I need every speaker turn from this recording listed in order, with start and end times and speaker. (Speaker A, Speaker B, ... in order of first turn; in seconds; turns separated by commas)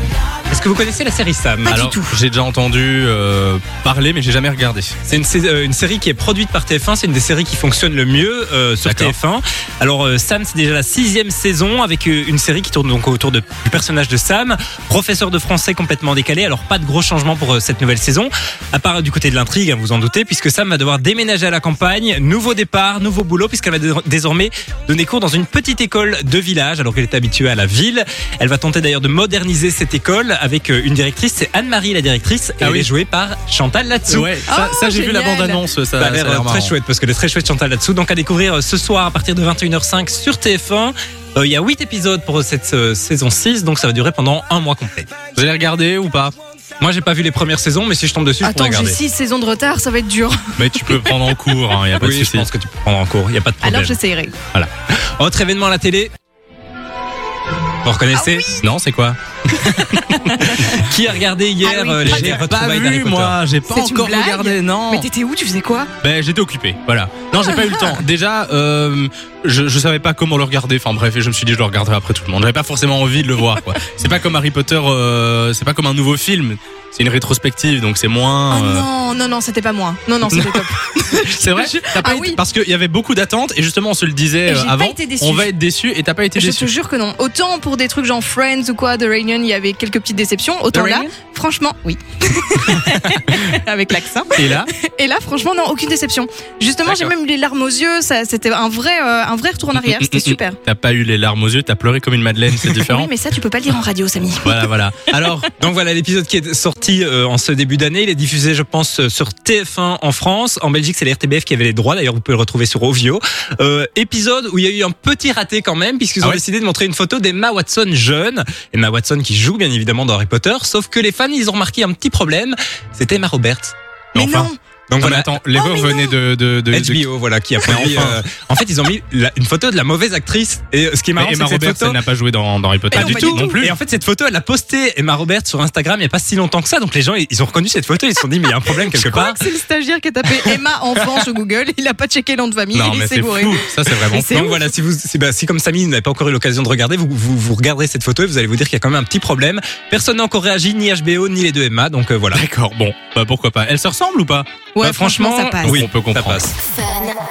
Speaker A: 0.5-2.1, Speaker B: 1.7-4.9, Speaker A: 5.1-34.4, Speaker B: 8.8-9.2, Speaker B: 32.6-32.9, Speaker B: 34.1-36.7, Speaker C: 34.5-35.6, Speaker A: 36.0-45.1, Speaker B: 45.4-46.3, Speaker A: 46.8-49.0, Speaker C: 48.4-51.2, Speaker B: 50.6-52.5, Speaker A: 52.0-54.0, Speaker C: 53.6-54.3, Speaker A: 54.6-56.1, Speaker A: 57.8-58.5, Speaker B: 58.6-60.7, Speaker C: 60.1-60.6, Speaker A: 60.5-63.4, Speaker C: 61.6-62.4, Speaker B: 62.1-65.1, Speaker C: 63.7-65.9, Speaker B: 66.0-78.9, Speaker C: 67.4-68.0, Speaker C: 78.5-82.4, Speaker B: 80.3-86.7, Speaker C: 84.5-85.5, Speaker C: 86.4-100.6, Speaker B: 90.7-91.1, Speaker B: 93.3-93.6, Speaker B: 94.3-94.7, Speaker B: 96.9-97.1, Speaker B: 99.8-103.1, Speaker C: 102.6-104.7, Speaker B: 104.4-105.5, Speaker A: 105.6-123.8, Speaker B: 124.2-127.0, Speaker C: 124.2-124.6, Speaker A: 124.9-125.3, Speaker C: 125.5-126.2, Speaker A: 126.7-132.0, Speaker B: 127.6-128.2, Speaker B: 131.2-133.7, Speaker C: 132.9-133.6, Speaker A: 132.9-139.4, Speaker C: 138.8-144.6, Speaker B: 142.7-144.3, Speaker A: 144.3-152.4, Speaker B: 152.3-154.5, Speaker C: 154.8-155.8, Speaker A: 154.8-156.6, Speaker B: 155.6-156.5